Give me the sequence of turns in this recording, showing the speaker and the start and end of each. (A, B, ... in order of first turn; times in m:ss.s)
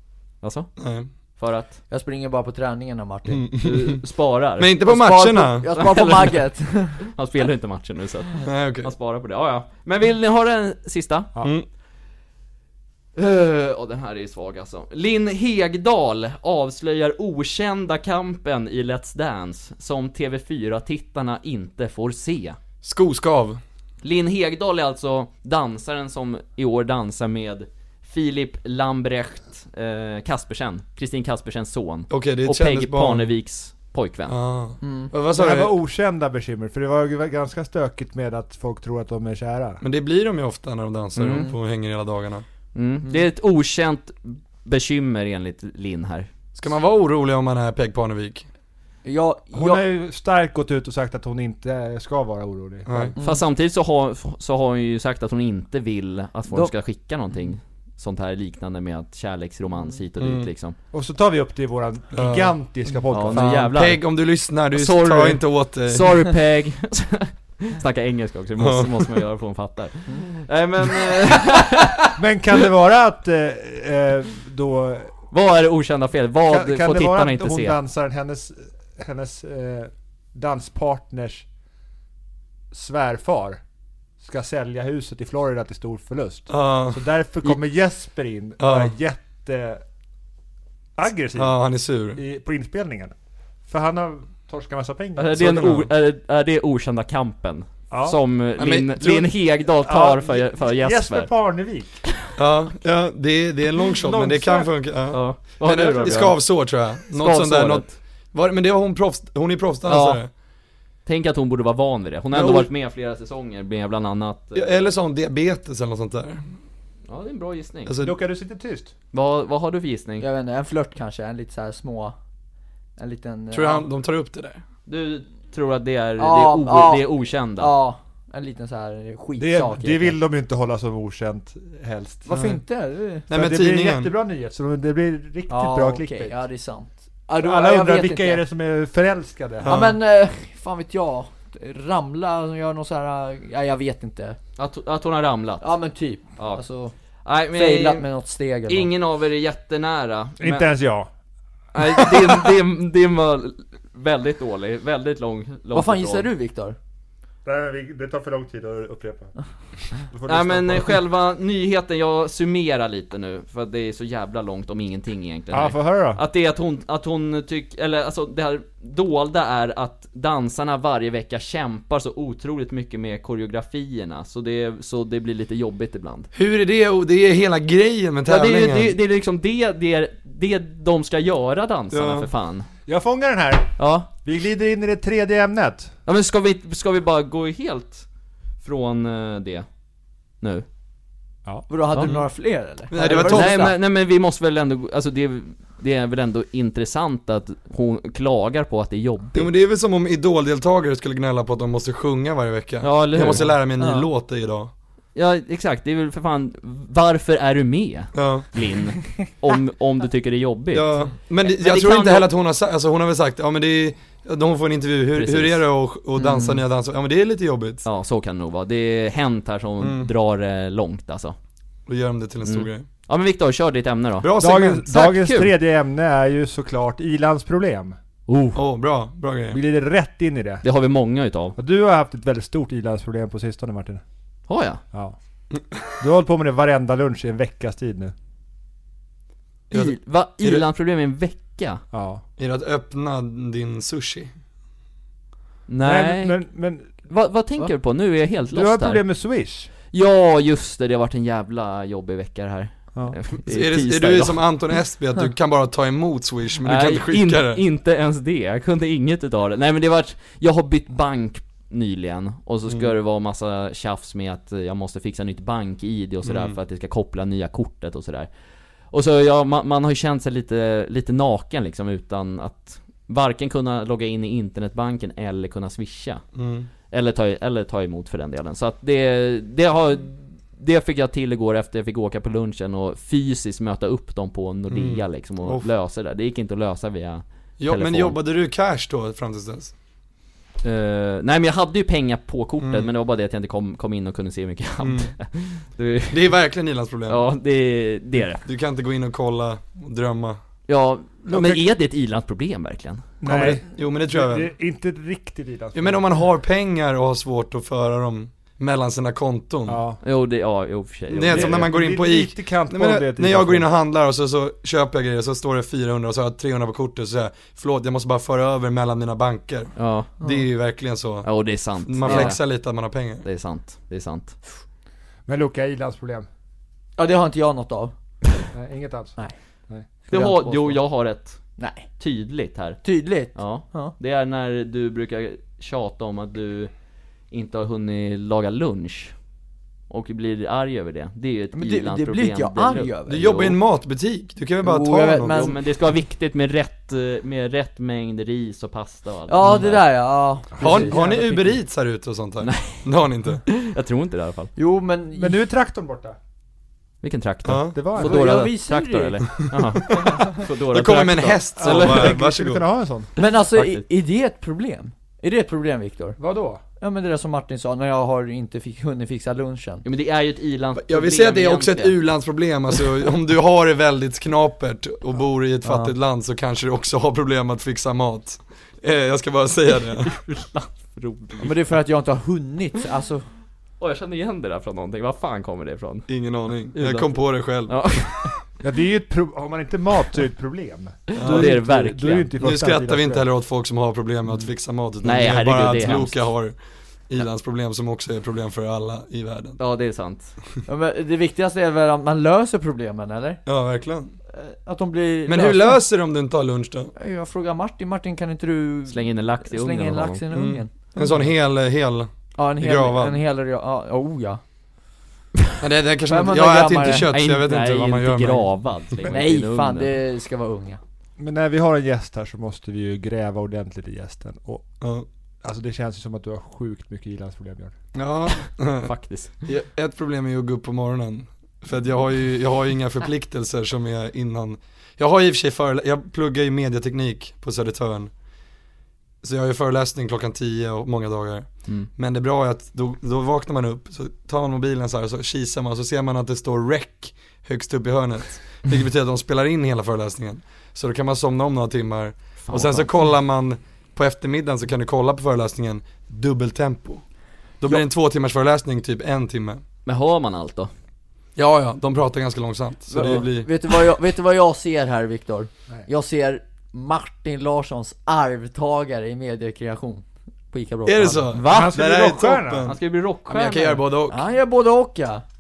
0:00.4-0:00.7 A
0:00.8-0:01.1 B
0:01.4-0:01.8 A
0:01.9-0:03.4 C
0:03.3-0:04.0 B
0:03.6-0:04.8 A
0:04.6-0:05.7 B
0:04.9-0:07.0 C
0:05.6-0:06.4 A
0:07.0-0:11.3 A
0:08.4-0:08.9 B
0:11.4-0:11.7 B
0:13.2-0:22.6 A
0:22.8-0:23.6 B
0:24.0-0:34.4 A
0:32.1-0:33.3 B
0:34.3-0:35.8 B
0:34.8-0:35.1 C
0:35.3-0:39.8 D
0:39.8-0:42.5 B
0:41.2-0:41.5 A
0:41.3-0:41.6 C
0:42.7-0:46.3 A
0:46.6-0:48.5 B
0:49.0-0:49.8 C
0:49.5-0:53.2 D
0:52.9-0:53.2 B
0:53.2-0:53.4 C
0:53.2-1:00.8 A
1:00.2-1:00.5 B
1:00.9-1:03.7 D
1:02.1-1:02.6 B
1:03.1-1:04.0 A
1:03.3-1:06.2 B
1:04.7-1:12.1 A
1:08.6-1:09.2 B
1:12.2-1:15.1 D
1:15.3-1:17.8 A
1:16.5-1:21.5 D
1:22.7-1:23.6 D
1:24.2-1:29.8 D
1:26.5-1:27.6 B
1:28.6-1:28.9 B
1:31.0-1:31.6 D
1:31.4-1:32.2 B
1:32.1-1:33.1 D
1:33.7-1:35.8 D
1:35.2-1:41.3 A
1:35.4-1:35.9 B
1:37.9-1:38.2 D
1:38.6-1:39.3 B
1:39.8-1:42.0 D
1:42.4-1:50.3 B
1:44.0-1:44.7 D
1:45.1-1:48.0 A
1:49.9-1:50.2 A
1:51.1-1:54.8 A
1:52.3-1:52.7 B
1:54.6-1:56.5 B
1:57.1-1:57.9 A
1:57.8-1:58.2 B
1:58.0-1:58.9 D
1:59.1-2:00.3 A
2:00.2-2:02.2 C
2:03.0-2:03.8 C
2:03.5-2:04.6 B
2:04.9-2:07.7 A
2:06.2-2:10.2 C
2:09.4-2:12.4 D
2:12.3-2:13.3 C
2:12.3-2:12.6 B
2:13.3-2:14.1 B
2:13.3-2:16.4 D
2:15.5-2:18.4 C
2:17.4-2:19.8 D
2:19.6-2:20.0 B
2:19.6-2:24.4 C
2:24.6-2:25.8 A
2:25.6-2:26.9 C
2:26.4-2:26.6 A
2:27.2-2:28.1 A
2:27.5-2:28.9 C
2:28.7-2:30.7 A
2:30.4-2:31.1 D
2:31.7-2:36.3 A
2:35.7-2:36.8 C
2:37.4-2:39.3 D
2:40.0-2:41.0 D
2:40.3-2:56.3 A
2:45.5-2:46.2 D
2:56.3-2:59.0 B
2:58.3-3:02.7 A
3:01.9-3:02.3 B
3:02.9-3:05.9 D
3:03.8-3:04.1 A
3:06.1-3:08.1 A
3:08.6-3:09.7 A
3:11.7-3:13.8 C
3:11.9-3:12.2 A
3:12.9-3:13.7 B
3:13.0-3:19.5 A
3:19.4-3:24.7 B
3:22.8-3:23.6 A
3:23.8-3:24.1 C
3:25.2-3:32.3 A
3:28.1-3:28.5 B
3:30.7-3:37.8 B
3:35.2-3:35.6 A
3:36.2-3:36.6 C
3:37.8-3:41.4 A
3:39.8-3:40.1 B
3:41.9-3:42.9 B
3:42.4-3:44.4 A
3:44.2-3:44.9 B
3:44.4-3:48.0 D
3:44.9-3:45.5 A
3:48.3-3:48.6 A
3:48.6-3:49.6 B
3:49.5-3:50.6 D
3:50.6-3:51.6 A
3:51.6-3:54.0 D
3:54.5-3:54.8 A
3:56.0-3:58.1 D
3:59.7-4:00.6 B
3:59.7-4:01.8 A
4:01.9-4:02.2 D
4:02.4-4:04.3 B
4:05.7-4:06.4 A
4:05.8-4:06.9 D
4:07.1-4:09.0 A
4:08.5-4:09.7 D
4:09.9-4:14.4 A
4:13.4-4:17.6 B
4:16.6-4:28.3 A
4:26.2-4:26.6 B
4:28.9-4:36.2 A
4:36.4-4:36.7 B
4:36.9-4:48.2 A
4:44.7-4:45.7 B
4:47.6-4:49.7 B
4:50.6-4:56.4 A
4:52.6-4:52.9 B
4:54.8-4:55.1 B
4:56.1-4:57.2 B
4:57.1-4:58.4 A
4:58.4-5:00.4 B
5:00.7-5:03.1 A
5:01.3-5:01.7 D
5:03.2-5:06.1 D
5:03.2-5:04.5 B
5:05.7-5:09.8 B
5:09.7-5:10.0 D
5:10.0-5:11.7 A
5:11.1-5:23.2 B
5:11.3-5:13.7 D
5:19.8-5:20.1 A
5:21.2-5:22.4 A
5:22.1-5:22.3 C
5:23.2-5:24.4 A
5:25.3-5:26.3 D
5:27.0-5:27.9 C
5:28.5-5:29.9 D
5:30.1-5:30.8 C
5:30.1-5:31.4 A
5:31.6-5:31.9 C
5:32.0-5:36.7 A
5:32.8-5:33.9 C
5:37.3-5:39.1 A
5:39.9-5:43.6 A
5:41.6-5:43.3 C
5:43.1-5:45.5 B
5:44.6-5:45.6 C
5:45.3-5:49.9 A
5:49.3-5:51.1 C
5:50.6-5:51.5 D
5:50.6-5:53.4 B
5:52.4-5:52.9 A
5:53.5-5:54.5 A
5:54.6-5:55.4 C
5:55.2-5:56.2 D
5:57.0-6:02.2 A
5:57.4-5:57.8 B
5:57.8-5:58.2 D
5:58.0-5:59.4 C
5:59.5-6:02.6 B
6:01.6-6:03.1 D
6:03.2-6:06.2 C
6:03.5-6:03.8 A
6:06.2-6:06.6 D
6:06.8-6:09.8 C
6:09.8-6:12.0 A
6:10.8-6:20.1 B
6:15.6-6:15.9 C
6:20.0-6:21.6 A
6:21.4-6:23.3 C
6:23.8-6:26.1 A
6:26.1-6:28.3 B
6:26.7-6:28.4 A
6:28.6-6:33.3 D
6:31.1-6:32.3 A
6:31.2-6:31.5 B
6:32.4-6:39.6 B
6:35.0-6:36.4 A
6:39.6-6:40.4 A
6:40.7-6:43.4 C
6:43.5-6:44.1 B
6:44.3-6:45.8 C
6:45.3-6:46.9 B
6:47.0-6:50.7 C
6:48.9-6:50.2 A
6:50.3-6:53.2 B
6:52.4-6:54.4 C
6:55.6-6:58.5 B
6:56.1-6:57.1 C
6:57.1-6:59.9 A
6:59.1-7:00.8 C
7:01.2-7:04.7 D
7:04.8-7:05.1 B
7:05.4-7:07.8 D
7:07.9-7:08.9 B
7:08.8-7:09.4 A
7:09.4-7:18.1 B
7:19.2-7:39.6 B
7:32.4-7:32.9 A
7:39.9-7:40.7 A
7:41.4-7:43.5 B
7:42.9-7:51.5 C
7:50.8-7:54.2 B
7:51.4-7:51.7 A
7:51.5-7:52.7 D
7:52.6-7:53.8 A
7:54.1-7:55.2 C